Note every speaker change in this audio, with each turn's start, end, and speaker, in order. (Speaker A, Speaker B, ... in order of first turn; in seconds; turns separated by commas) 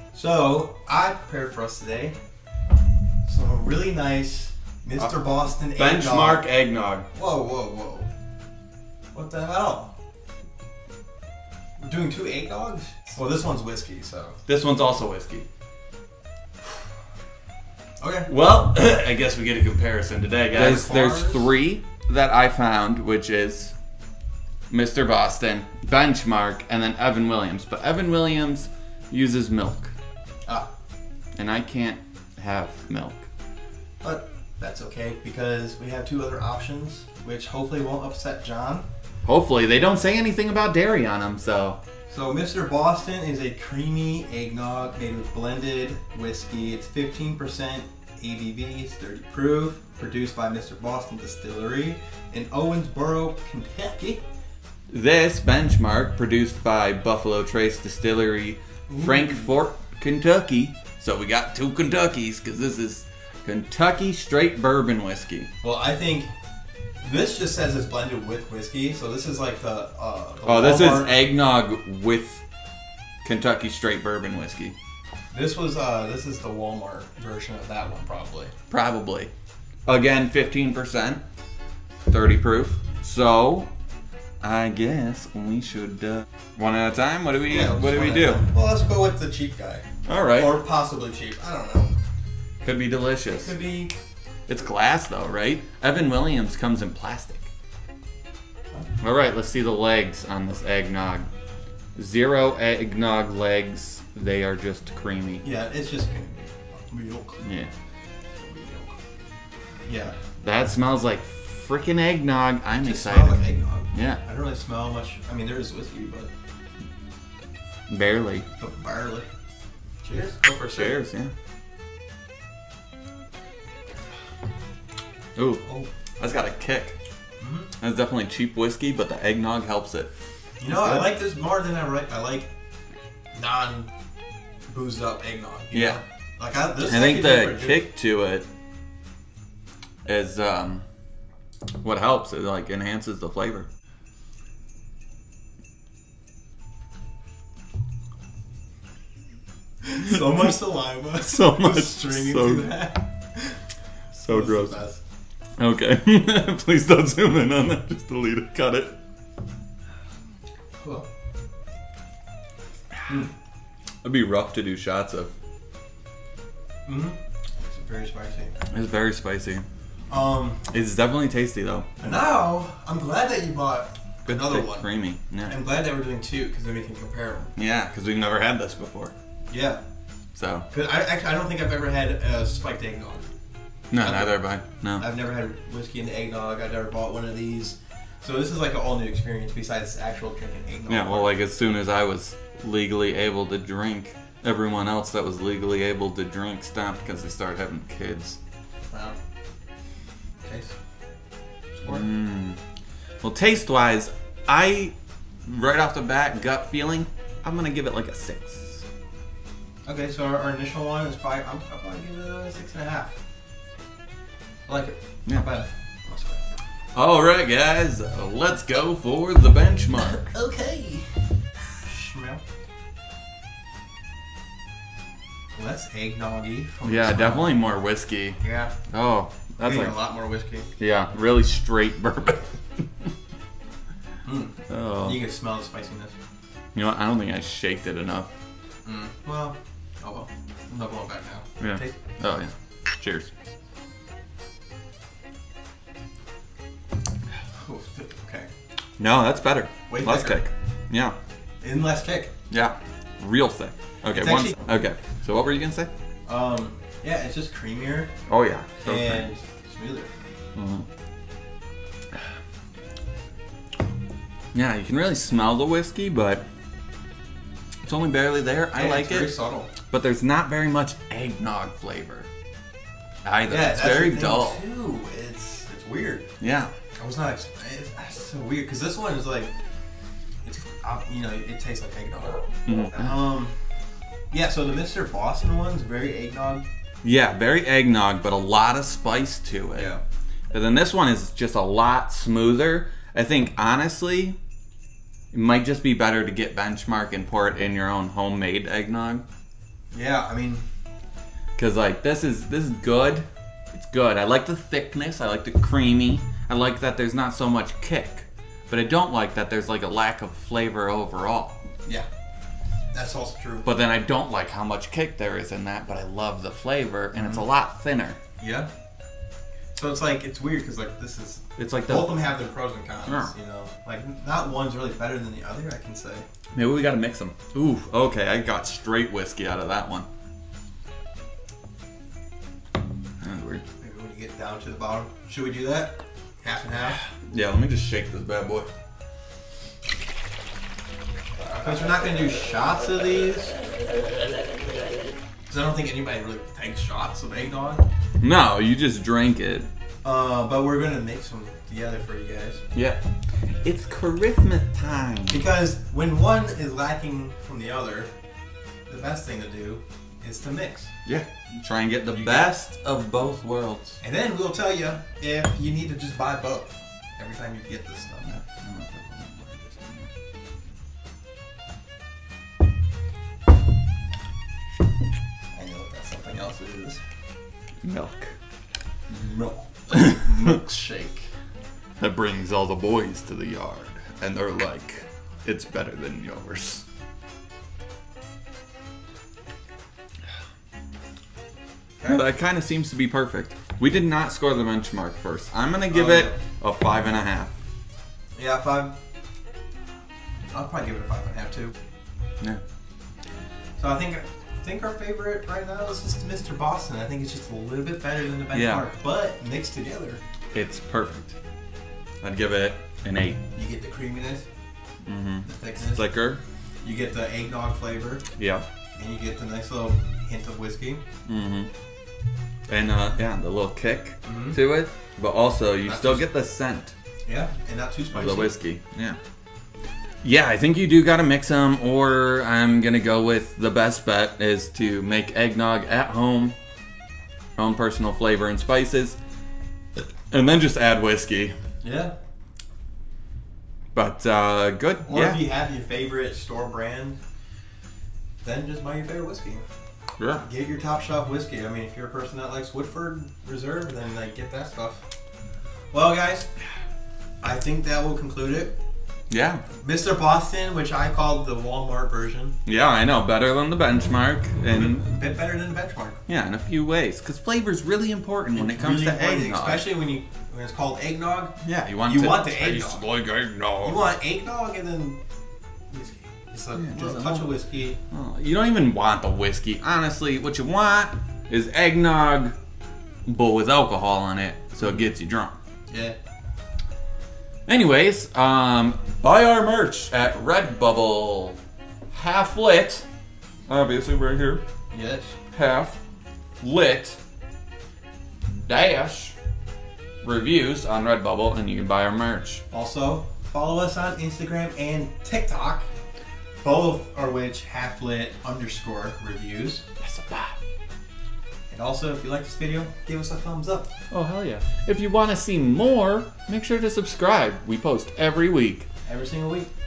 Speaker A: 0.1-2.2, Speaker A: 3.2-6.5, Speaker B: 5.0-7.1, Speaker A: 7.1-8.1, Speaker A: 9.1-9.9, Speaker A: 11.8-14.4, Speaker B: 14.4-15.5, Speaker A: 18.0-18.3, Speaker B: 18.3-23.7, Speaker A: 20.5-21.5, Speaker B: 24.7-29.9, Speaker B: 31.4-33.3, Speaker A: 34.0-38.9, Speaker B: 39.2-41.8, Speaker A: 42.1-54.2, Speaker B: 54.9-65.5, Speaker A: 58.9-59.5, Speaker A: 65.6-66.3, Speaker A: 67.0-71.2, Speaker B: 70.5-72.4, Speaker B: 73.2-74.7, Speaker A: 75.3-78.5, Speaker B: 78.7-79.3, Speaker B: 79.8-81.2, Speaker B: 82.1-83.7, Speaker B: 84.4-88.4, Speaker A: 87.5-92.0, Speaker B: 90.0-90.5, Speaker B: 92.6-93.5, Speaker A: 93.3-94.0, Speaker B: 94.5-97.5, Speaker B: 99.0-101.3, Speaker B: 102.0-105.4, Speaker A: 105.4-107.5, Speaker B: 107.4-107.7, Speaker A: 108.3-109.0, Speaker A: 109.8-110.2, Speaker B: 110.4-113.4, Speaker A: 112.8-116.3, Speaker B: 113.9-114.2, Speaker B: 117.9-118.5, Speaker A: 118.6-119.3, Speaker A: 120.0-121.0, Speaker B: 120.7-121.3, Speaker B: 125.3-125.6, Speaker A: 125.6-125.9, Speaker B: 126.2-126.9, Speaker A: 127.4-127.7, Speaker B: 127.8-130.1, Speaker A: 130.6-132.5, Speaker B: 130.7-131.1, Speaker A: 133.3-133.9, Speaker A: 134.7-137.9, Speaker B: 135.7-136.0, Speaker B: 136.8-138.5, Speaker B: 140.1-140.8, Speaker B: 141.8-143.7, Speaker A: 149.8-153.6, Speaker B: 151.2-152.7, Speaker B: 154.2-154.8, Speaker A: 154.2-155.0, Speaker B: 155.6-159.0, Speaker A: 160.8-161.1, Speaker B: 164.0-165.3, Speaker A: 166.8-168.5, Speaker B: 168.7-169.6, Speaker A: 170.1-170.6, Speaker B: 170.7-172.2, Speaker A: 172.0-174.9, Speaker B: 174.2-175.5, Speaker A: 175.4-177.5, Speaker B: 177.6-179.1, Speaker A: 179.5-179.8, Speaker B: 180.3-180.7, Speaker A: 180.7-183.2, Speaker B: 183.9-185.0, Speaker A: 184.0-184.4, Speaker A: 185.0-191.4, Speaker B: 190.9-198.4, Speaker A: 198.9-199.2, Speaker A: 200.4-200.7, Speaker A: 201.7-202.1, Speaker B: 201.8-202.6, Speaker B: 203.2-204.9, Speaker B: 205.4-208.8, Speaker A: 209.8-213.1, Speaker A: 214.7-216.4, Speaker B: 216.9-220.3, Speaker A: 220.1-221.3, Speaker A: 221.8-222.4, Speaker A: 225.5-227.6, Speaker B: 226.8-228.4, Speaker A: 228.4-228.8, Speaker B: 228.9-229.9, Speaker A: 229.6-230.7, Speaker B: 230.8-232.8, Speaker A: 234.2-236.1, Speaker B: 234.7-235.2, Speaker B: 236.7-238.3, Speaker A: 238.8-241.9, Speaker B: 241.6-243.3, Speaker A: 247.6-248.5, Speaker B: 249.0-251.2, Speaker A: 249.9-250.4, Speaker A: 251.6-252.3, Speaker B: 252.5-255.9, Speaker A: 254.1-254.6, Speaker A: 256.2-258.1, Speaker B: 258.3-259.3, Speaker A: 258.8-260.1, Speaker B: 260.5-260.9, Speaker B: 264.5-266.4, Speaker B: 267.8-269.3, Speaker A: 268.7-269.7, Speaker B: 269.9-272.3, Speaker B: 273.2-274.6, Speaker A: 273.5-276.3, Speaker B: 276.4-276.7, Speaker A: 277.0-279.5, Speaker A: 280.4-283.6, Speaker B: 282.6-283.1, Speaker A: 284.3-286.6, Speaker B: 287.0-290.0, Speaker A: 289.7-290.0, Speaker B: 290.5-294.4, Speaker B: 295.3-299.2, Speaker A: 299.9-300.6, Speaker B: 301.6-311.6, Speaker A: 312.9-313.7, Speaker B: 313.6-318.2, Speaker A: 317.1-317.4, Speaker A: 318.4-318.7, Speaker A: 319.7-326.2, Speaker B: 321.6-322.2, Speaker B: 323.1-323.3, Speaker B: 326.5-330.1, Speaker B: 333.2-333.6, Speaker A: 333.8-337.0, Speaker B: 337.1-338.7, Speaker A: 341.6-343.6, Speaker A: 345.5-347.8, Speaker B: 348.2-349.7, Speaker A: 350.0-352.6, Speaker B: 352.7-353.0, Speaker B: 353.6-355.4, Speaker A: 355.3-358.1, Speaker A: 358.9-360.9, Speaker B: 361.0-364.0, Speaker A: 362.1-362.5, Speaker A: 364.0-368.3, Speaker B: 368.2-370.1, Speaker A: 375.5-377.0, Speaker B: 377.8-378.3, Speaker A: 379.1-381.3, Speaker B: 382.0-386.8, Speaker A: 392.0-392.2, Speaker B: 392.0-397.5, Speaker A: 395.9-396.4, Speaker A: 398.4-398.9, Speaker A: 400.5-401.7, Speaker A: 403.8-410.2, Speaker B: 408.5-408.8, Speaker B: 410.5-411.3, Speaker B: 412.2-413.4, Speaker A: 413.5-414.4, Speaker B: 415.1-416.4, Speaker A: 415.4-416.1, Speaker A: 416.8-418.2, Speaker B: 418.4-418.6, Speaker A: 418.9-421.0, Speaker B: 421.2-421.7, Speaker B: 422.7-426.9, Speaker A: 424.2-424.6, Speaker A: 425.8-426.3, Speaker A: 427.2-428.5, Speaker B: 428.1-429.2, Speaker B: 430.2-436.6, Speaker B: 437.6-439.2, Speaker B: 440.3-441.6, Speaker A: 441.8-442.1, Speaker B: 443.9-445.4, Speaker A: 445.0-447.2, Speaker A: 448.4-449.6, Speaker B: 450.2-450.4, Speaker A: 450.4-455.0, Speaker A: 455.9-456.5, Speaker A: 457.4-458.7, Speaker B: 459.3-459.6, Speaker A: 459.8-462.6, Speaker B: 462.6-465.1, Speaker A: 464.7-466.2, Speaker B: 466.3-469.8, Speaker A: 468.5-473.0, Speaker B: 471.6-474.0, Speaker A: 473.8-475.2, Speaker A: 475.9-478.0, Speaker B: 476.7-477.5, Speaker B: 478.1-482.5, Speaker B: 483.2-485.6, Speaker A: 485.9-486.1, Speaker B: 487.7-491.6, Speaker B: 492.1-493.0, Speaker B: 493.7-494.6, Speaker A: 494.9-495.4, Speaker B: 495.5-496.0, Speaker B: 496.6-497.2, Speaker B: 498.7-499.3, Speaker B: 500.2-502.6, Speaker A: 502.7-505.9, Speaker A: 506.6-509.8, Speaker B: 510.0-510.6, Speaker A: 511.7-513.9, Speaker B: 514.1-518.9, Speaker A: 519.0-519.7